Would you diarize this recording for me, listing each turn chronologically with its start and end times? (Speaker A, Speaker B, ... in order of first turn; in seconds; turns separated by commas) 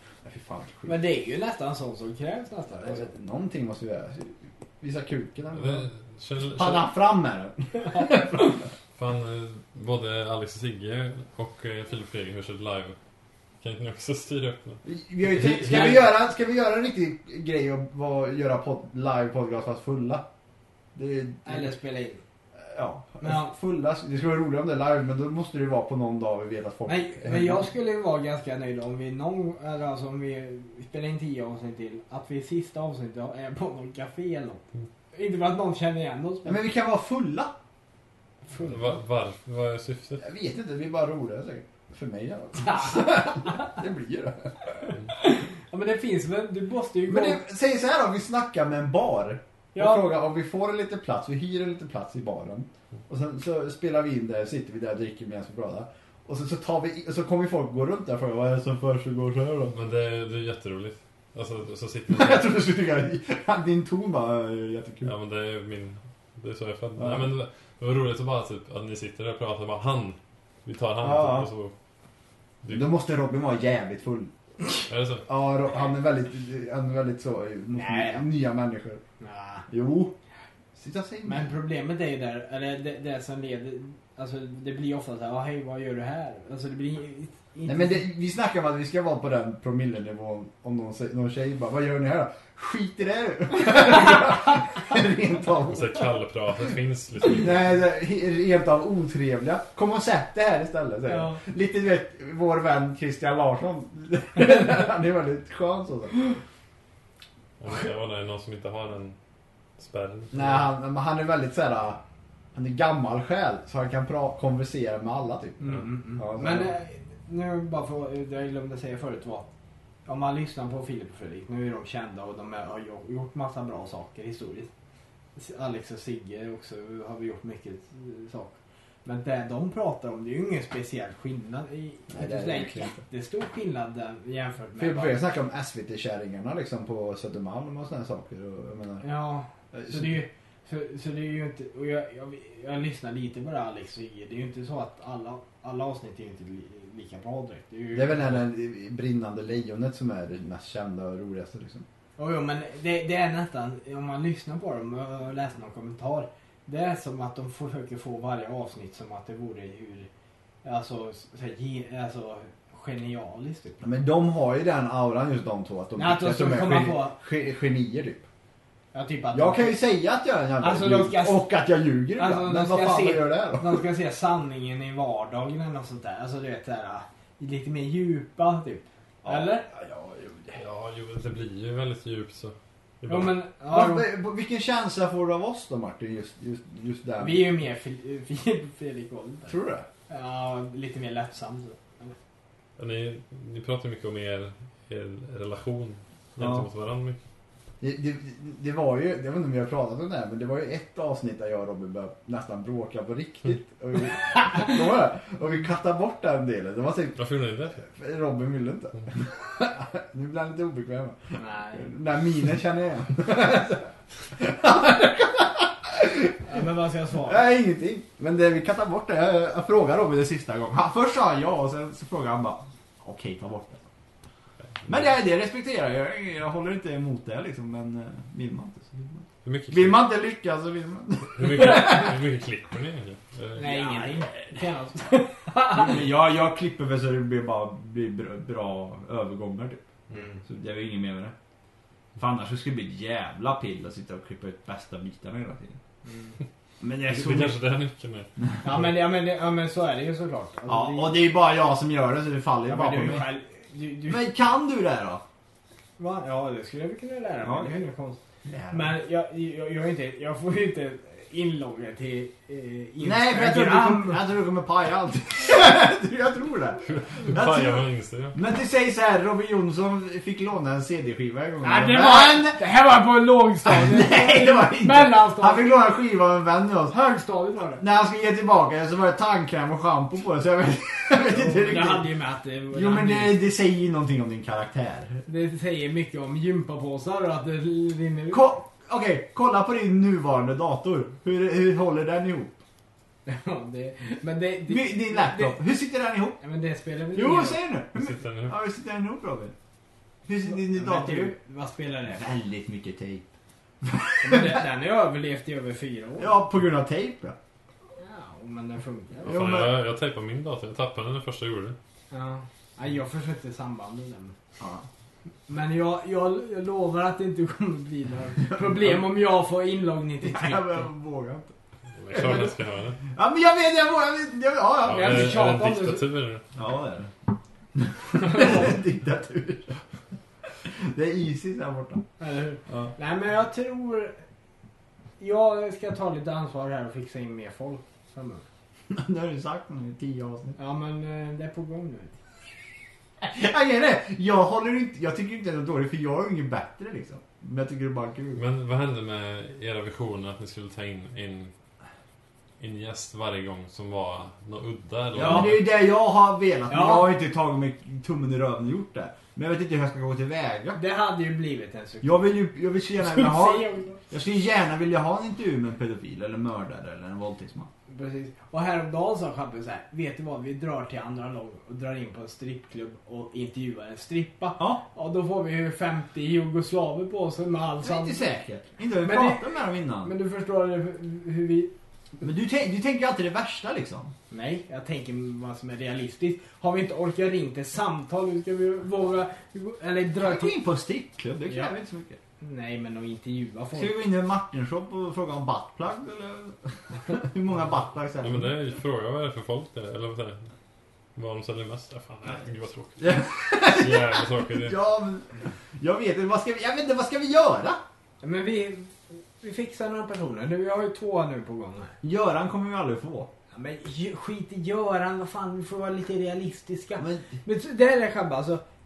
Speaker A: 0.2-1.0, Speaker B: 0.9-3.1, Speaker A: 2.8-5.8, Speaker C: 5.5-6.9, Speaker A: 6.5-8.6, Speaker C: 8.9-13.0, Speaker C: 13.6-16.0, Speaker A: 14.8-20.2, Speaker A: 20.9-21.7, Speaker B: 21.4-22.2, Speaker A: 22.6-27.6, Speaker B: 23.2-23.5, Speaker B: 26.9-36.6, Speaker A: 36.4-37.5, Speaker B: 38.5-38.8, Speaker C: 38.6-40.2, Speaker A: 40.2-44.9, Speaker B: 42.7-43.7, Speaker B: 45.1-47.4, Speaker A: 47.1-59.7, Speaker B: 49.7-50.0, Speaker C: 59.7-62.5, Speaker A: 62.1-65.1, Speaker C: 65.0-71.7, Speaker A: 67.0-67.3, Speaker A: 71.0-71.5, Speaker A: 72.7-74.3, Speaker C: 74.9-75.2, Speaker A: 75.2-79.0, Speaker B: 77.7-78.2, Speaker B: 79.2-79.6, Speaker A: 79.7-80.1, Speaker A: 80.7-81.5, Speaker B: 81.2-88.0, Speaker A: 87.7-96.0, Speaker C: 95.7-97.7, Speaker A: 97.4-106.3, Speaker B: 101.1-101.4, Speaker C: 107.6-109.2, Speaker C: 109.8-110.7, Speaker A: 110.3-112.0, Speaker A: 112.5-116.7, Speaker B: 115.6-119.5, Speaker B: 120.0-124.7, Speaker B: 125.3-135.2, Speaker A: 132.1-133.0, Speaker A: 134.8-139.0, Speaker B: 139.0-148.4, Speaker A: 139.7-140.2, Speaker A: 147.9-151.8, Speaker B: 152.2-160.1, Speaker B: 160.6-163.8, Speaker A: 163.8-168.2, Speaker B: 166.0-167.1, Speaker B: 168.9-169.8, Speaker A: 169.3-173.8, Speaker B: 170.6-171.4, Speaker B: 172.2-179.7, Speaker A: 179.2-180.6, Speaker C: 180.6-183.3, Speaker B: 183.1-184.1, Speaker A: 183.7-187.4, Speaker B: 187.2-189.6, Speaker A: 189.4-189.9, Speaker B: 190.1-192.1, Speaker C: 192.8-197.2, Speaker A: 196.4-196.7, Speaker A: 197.8-207.2, Speaker C: 207.2-207.8, Speaker A: 207.8-216.5, Speaker B: 211.3-211.9, Speaker B: 216.4-217.4, Speaker A: 217.2-223.8, Speaker A: 224.8-232.1, Speaker C: 229.4-230.1, Speaker C: 231.3-233.6, Speaker B: 233.6-235.9, Speaker A: 233.6-234.4, Speaker A: 235.7-239.8, Speaker B: 240.1-240.4, Speaker A: 240.4-241.3, Speaker A: 242.2-245.8, Speaker B: 246.0-246.3, Speaker A: 246.8-247.6, Speaker C: 247.1-248.3, Speaker B: 248.6-251.2, Speaker A: 250.7-253.3, Speaker B: 252.7-254.3, Speaker A: 254.1-255.2, Speaker B: 256.0-258.2, Speaker A: 257.4-257.7, Speaker A: 258.4-258.9, Speaker B: 258.7-264.2, Speaker A: 263.0-272.6, Speaker C: 266.8-268.4, Speaker B: 271.6-275.7, Speaker A: 273.6-276.9, Speaker B: 276.9-277.8, Speaker A: 277.8-282.1, Speaker B: 281.3-283.4, Speaker A: 282.7-285.2, Speaker B: 285.2-288.5, Speaker A: 288.3-292.6, Speaker B: 293.2-295.6, Speaker A: 294.7-296.4, Speaker B: 296.4-297.6, Speaker A: 297.1-299.5, Speaker C: 297.9-298.6, Speaker A: 300.2-301.3, Speaker B: 300.5-302.3, Speaker A: 302.1-303.2, Speaker A: 303.8-304.6, Speaker B: 304.2-306.3, Speaker A: 306.2-307.4, Speaker B: 308.0-309.4, Speaker C: 309.2-311.8, Speaker A: 309.2-309.8, Speaker B: 312.1-314.4, Speaker A: 314.6-314.8, Speaker B: 315.5-320.6, Speaker A: 318.4-319.0, Speaker A: 320.2-321.5, Speaker C: 322.0-323.0, Speaker A: 322.1-322.6, Speaker A: 323.1-325.3, Speaker C: 324.8-326.4, Speaker B: 324.9-326.1, Speaker A: 326.5-327.1, Speaker A: 327.7-329.8, Speaker B: 328.2-328.6, Speaker A: 330.5-332.1, Speaker B: 332.2-334.2, Speaker B: 335.2-338.4, Speaker A: 338.9-340.6, Speaker B: 340.6-342.2, Speaker A: 343.2-348.4, Speaker C: 348.4-351.5, Speaker C: 352.6-355.6, Speaker A: 355.1-360.8, Speaker B: 355.2-355.5, Speaker B: 356.7-357.1, Speaker B: 360.7-362.2, Speaker A: 362.0-367.7, Speaker B: 363.0-364.0, Speaker B: 367.9-378.3, Speaker A: 377.8-380.1, Speaker B: 379.0-379.5, Speaker B: 380.0-381.7, Speaker A: 382.2-384.1, Speaker B: 384.3-390.5, Speaker A: 390.2-392.2, Speaker B: 391.5-391.7, Speaker B: 392.4-393.9, Speaker A: 393.7-398.5, Speaker C: 398.2-400.5, Speaker C: 401.1-404.8, Speaker A: 403.0-407.8, Speaker B: 408.2-411.9, Speaker A: 412.0-413.3, Speaker B: 413.5-418.6, Speaker A: 417.0-417.3